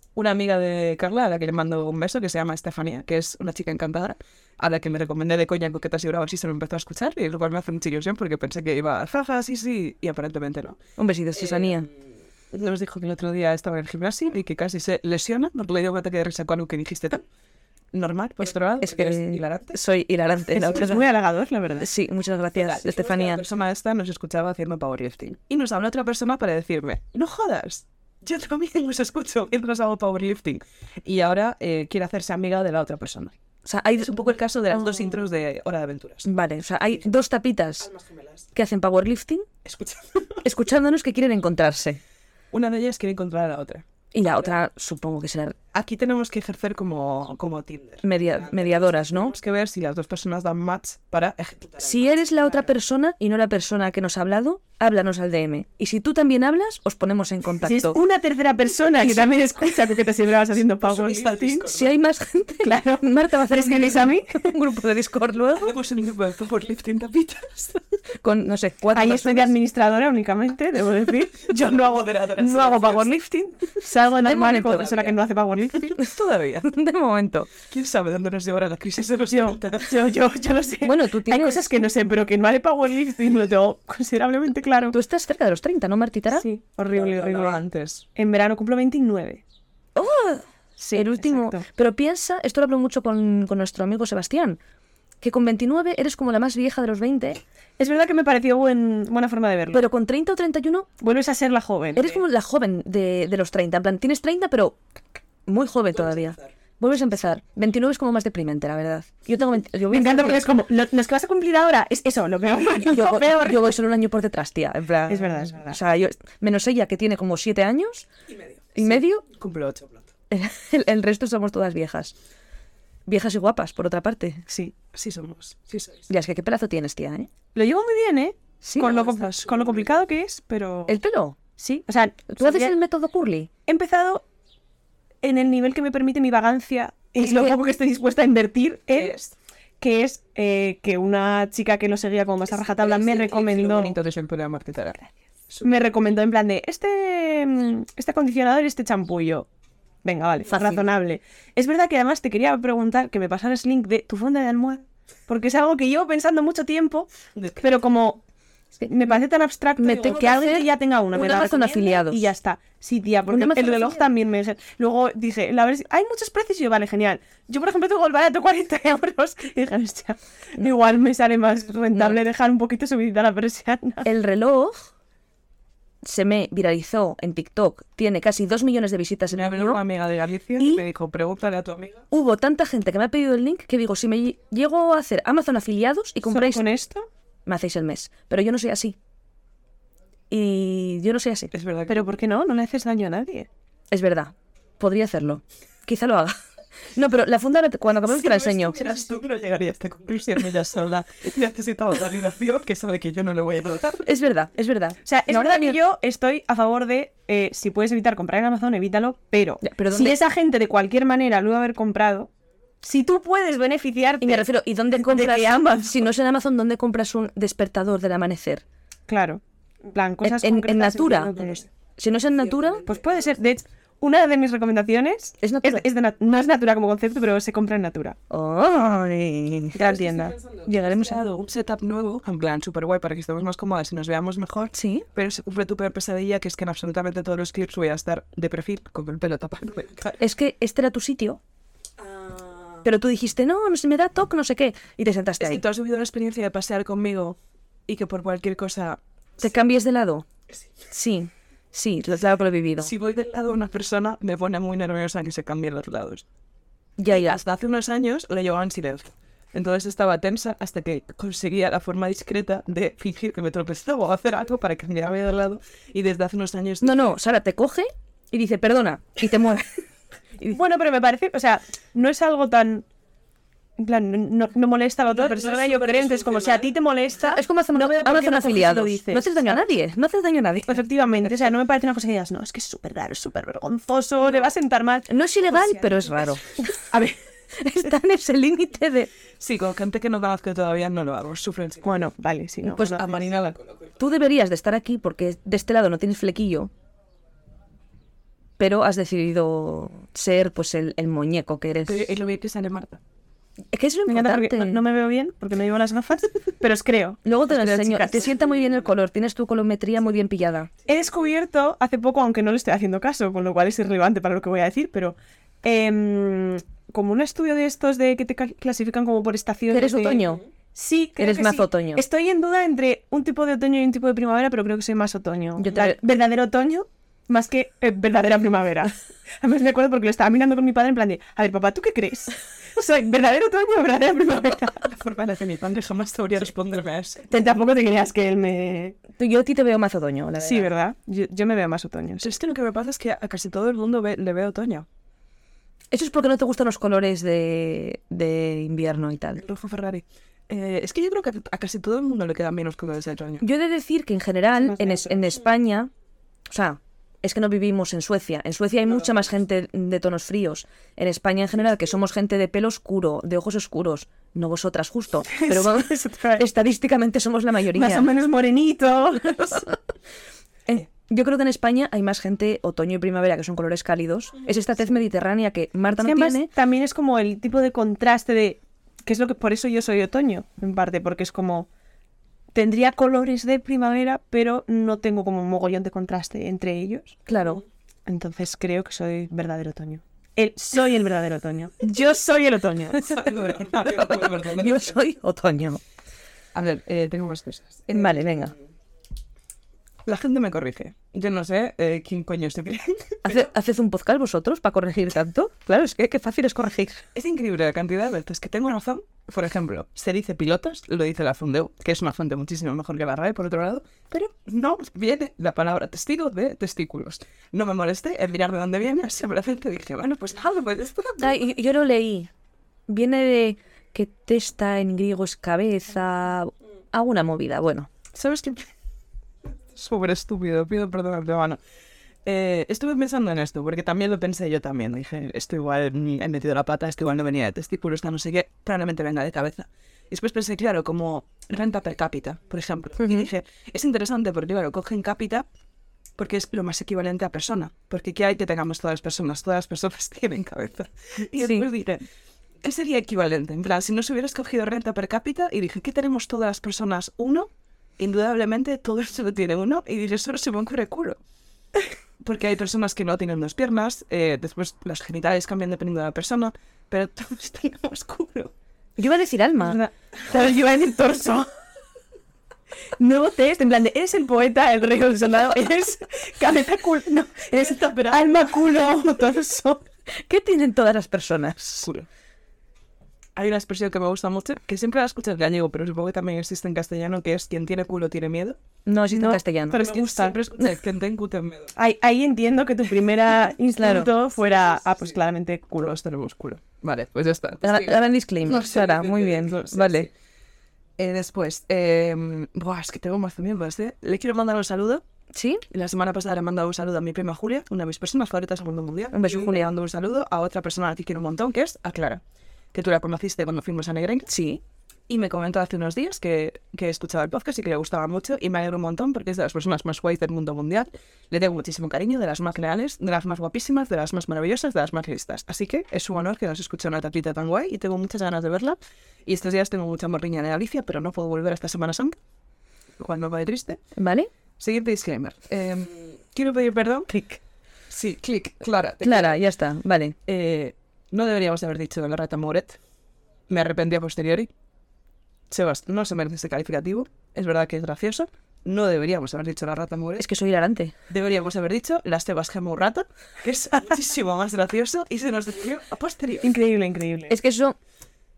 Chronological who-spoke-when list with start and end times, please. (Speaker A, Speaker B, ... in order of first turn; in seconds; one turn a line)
Speaker A: 0.2-10.8
Speaker B: 11.0-11.9
Speaker A: 11.4-11.7
Speaker A: 12.5-17.2
Speaker A: 17.9-19.8
Speaker B: 18.8-21.1
Speaker C: 20.6-21.9
Speaker B: 21.8-23.4
Speaker A: 22.6-33.4
Speaker B: 33.6-34.3
Speaker A: 34.0-36.3
Speaker B: 36.2-37.9
Speaker A: 37.8-38.4
Speaker B: 38.5-39.5
Speaker A: 39.6-40.4
Speaker B: 40.4-42.0
Speaker A: 42.5-43.8
Speaker B: 44.1-45.6
Speaker A: 45.7-52.6
Speaker B: 48.0-49.3
Speaker B: 51.8-58.0
Speaker C: 57.6-61.7
Speaker A: 60.8-61.9
Speaker B: 61.7-65.7
Speaker C: 62.6-64.5
Speaker A: 65.6-67.8
Speaker B: 68.2-69.5
Speaker C: 68.9-76.0
Speaker A: 71.4-73.1
Speaker B: 74.2-75.0
Speaker A: 76.0-76.8
Speaker B: 76.7-77.5
Speaker A: 77.6-80.0
Speaker C: 79.3-85.0
Speaker B: 80.8-81.7
Speaker B: 84.9-86.5
Speaker C: 86.3-87.6
Speaker A: 86.8-88.0
Speaker C: 88.2-89.4
Speaker B: 90.0-94.6
Speaker C: 90.8-91.7
Speaker B: 95.2-97.4
Speaker C: 97.8-99.8
Speaker B: 99.7-100.9
Speaker C: 101.0-102.2
Speaker B: 102.0-104.8
Speaker B: 105.5-110.5
Speaker C: 109.9-113.7
Speaker B: 112.8-118.1
Speaker C: 115.1-115.8
Speaker A: 118.3-120.1
Speaker B: 118.8-119.2
Speaker B: 120.3-122.1
Speaker B: 123.1-124.4
Speaker C: 124.5-124.8
Speaker A: 124.9-126.1
Speaker B: 126.1-127.3
Speaker C: 127.5-131.0
Speaker B: 128.6-129.0
Speaker A: 128.8-129.9
Speaker B: 130.9-131.4
Speaker C: 131.6-132.8
Speaker B: 132.3-133.5
Speaker C: 133.7-134.2
Speaker C: 135.2-139.2
Speaker B: 137.2-137.6
Speaker A: 138.9-139.3
Speaker C: 139.8-144.0
Speaker A: 142.5-145.7
Speaker C: 145.6-149.5
Speaker C: 150.0-158.2
Speaker C: 158.8-174.1
Speaker B: 159.8-162.3
Speaker B: 163.3-164.1
Speaker B: 174.0-174.9
Speaker B: 176.0-179.8
Speaker A: 179.3-182.0
Speaker B: 180.6-180.8
Speaker B: 182.1-186.7
Speaker C: 186.3-187.1
Speaker B: 187.5-189.0
Speaker B: 190.3-191.5
Speaker A: 191.5-192.1
Speaker C: 191.9-193.5
Speaker B: 193.9-196.4
Speaker B: 196.9-198.8
Speaker A: 198.1-204.1
Speaker B: 204.1-205.8
Speaker C: 205.1-212.3
Speaker B: 209.6-210.2
Speaker C: 212.8-215.9
Speaker B: 214.2-218.6
Speaker C: 219.1-221.7
Speaker B: 220.2-222.8
Speaker A: 222.7-223.0
Speaker C: 222.8-228.2
Speaker B: 225.4-225.9
Speaker B: 228.3-229.9
Speaker C: 229.7-230.3
Speaker A: 229.9-240.2
Speaker B: 230.7-231.2
Speaker B: 234.7-235.1
Speaker B: 240.2-241.4
Speaker A: 242.0-242.8
Speaker B: 242.8-245.6
Speaker A: 245.4-249.0
Speaker B: 249.4-250.3
Speaker B: 250.9-252.9
Speaker A: 252.8-256.2
Speaker B: 257.0-257.4
Speaker A: 257.1-267.0
Speaker B: 266.8-269.7
Speaker C: 270.5-272.9
Speaker C: 273.8-279.6
Speaker A: 275.1-276.7
Speaker B: 277.2-280.8
Speaker C: 280.7-286.2
Speaker B: 285.1-286.4
Speaker C: 286.8-287.2
Speaker B: 287.6-289.1
Speaker A: 289.4-291.9
Speaker C: 291.8-293.2
Speaker A: 292.8-293.9
Speaker B: 294.0-296.7
Speaker B: 298.6-302.1
Speaker A: 301.9-303.0
Speaker B: 303.7-304.8
Speaker C: 304.1-308.3
Speaker B: 307.2-310.7
Speaker C: 310.9-334.8
Speaker B: 319.7-320.4
Speaker B: 321.2-322.0
Speaker B: 325.6-326.0
Speaker A: 334.8-337.3
Speaker C: 337.3-339.0
Speaker B: 339.2-340.7
Speaker C: 340.4-342.3
Speaker A: 342.2-344.9
Speaker B: 345.9-349.4
Speaker A: 349.4-353.5
Speaker B: 353.4-355.9
Speaker C: 354.7-355.2
Speaker B: 356.5-368.1
Speaker C: 365.3-366.5
Speaker C: 367.7-369.7
Speaker B: 370.7-376.5
Speaker C: 376.0-381.7
Speaker C: 382.5-387.2
Speaker B: 387.3-387.6
Speaker C: 388.1-393.6
Speaker A: 393.1-394.9
Speaker B: 394.4-395.8
Speaker A: 396.5-398.4
Speaker B: 397.9-398.5
Speaker A: 400.1-403.3
Speaker B: 403.2-407.0
Speaker A: 407.1-421.4
Speaker B: 421.2-422.3
Speaker B: 422.9-427.9
Speaker A: 428.1-428.6
Speaker A: 429.7-431.6
Speaker A: 432.2-445.5
Speaker A: 446.2-452.1
Speaker B: 451.3-451.7
Speaker A: 452.6-461.2
Speaker A: 462.2-468.5
Speaker B: 469.0-469.8
Speaker C: 469.6-471.5
Speaker C: 473.0-479.9
Speaker A: 477.6-478.5
Speaker B: 480.1-481.9
Speaker A: 483.4-488.6
Speaker B: 488.9-489.8
Speaker C: 489.2-490.4
Speaker A: 489.7-491.7
Speaker C: 491.8-495.9
Speaker B: 493.8-494.1
Speaker A: 495.8-500.1
Speaker B: 497.6-500.1
Speaker A: 501.0-505.0
Speaker B: 505.3-505.6
Speaker A: 505.7-512.2
Speaker B: 509.1-509.7
Speaker A: 512.7-514.3
Speaker B: 514.3-514.6
Speaker A: 515.1-532.2
Speaker A: 533.0-533.8
Speaker B: 534.0-534.3
Speaker A: 534.6-537.2
Speaker A: 537.9-539.4
Speaker B: 539.0-540.2
Speaker A: 540.3-542.8
Speaker A: 543.5-544.5
Speaker A: 545.5-550.3
Speaker B: 550.2-550.9
Speaker A: 551.1-556.5
Speaker C: 556.4-557.4
Speaker B: 557.3-557.8